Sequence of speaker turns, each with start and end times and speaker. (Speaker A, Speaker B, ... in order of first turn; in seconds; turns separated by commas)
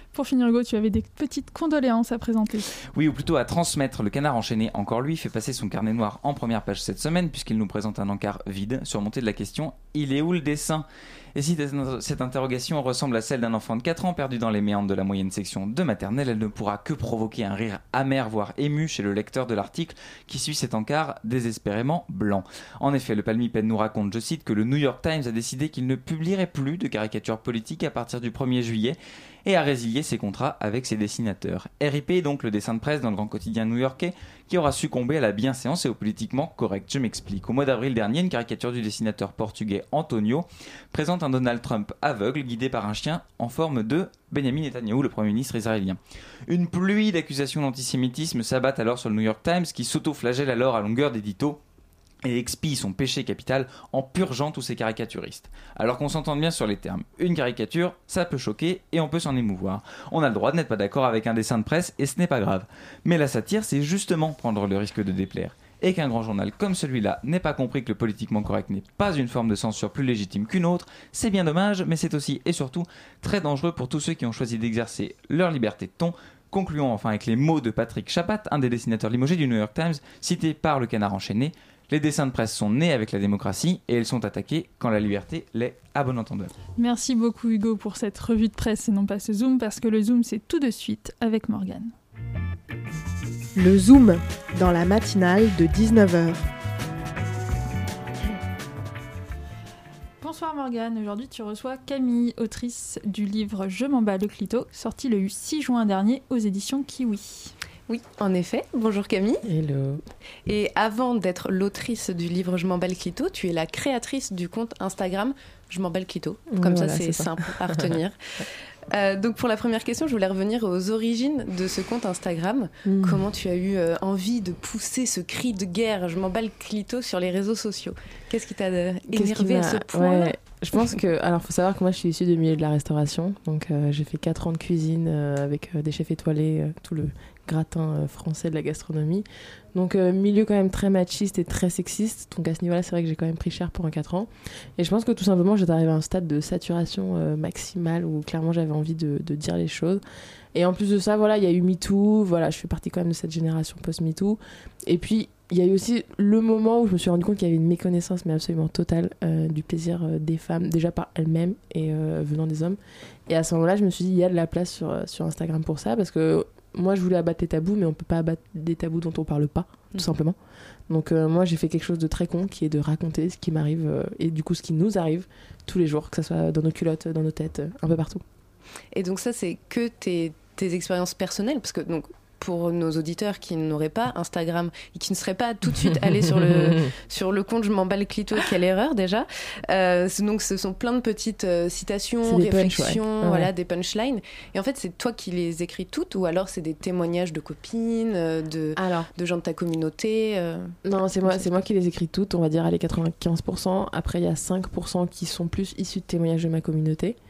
Speaker A: 0.1-2.7, Speaker B: 2.9-51.6, Speaker B: 52.2-86.5, Speaker A: 86.8-91.9, Speaker C: 93.6-96.4, Speaker A: 100.2-107.5, Speaker D: 107.9-109.4, Speaker E: 109.4-110.0, Speaker D: 110.5-130.4, Speaker E: 116.5-117.9, Speaker E: 122.9-123.2, Speaker E: 129.1-150.0, Speaker E: 150.5-170.4, Speaker E: 170.9-178.2, Speaker D: 178.9-201.4, Speaker E: 192.2-193.5, Speaker E: 198.8-199.1, Speaker E: 200.8-207.2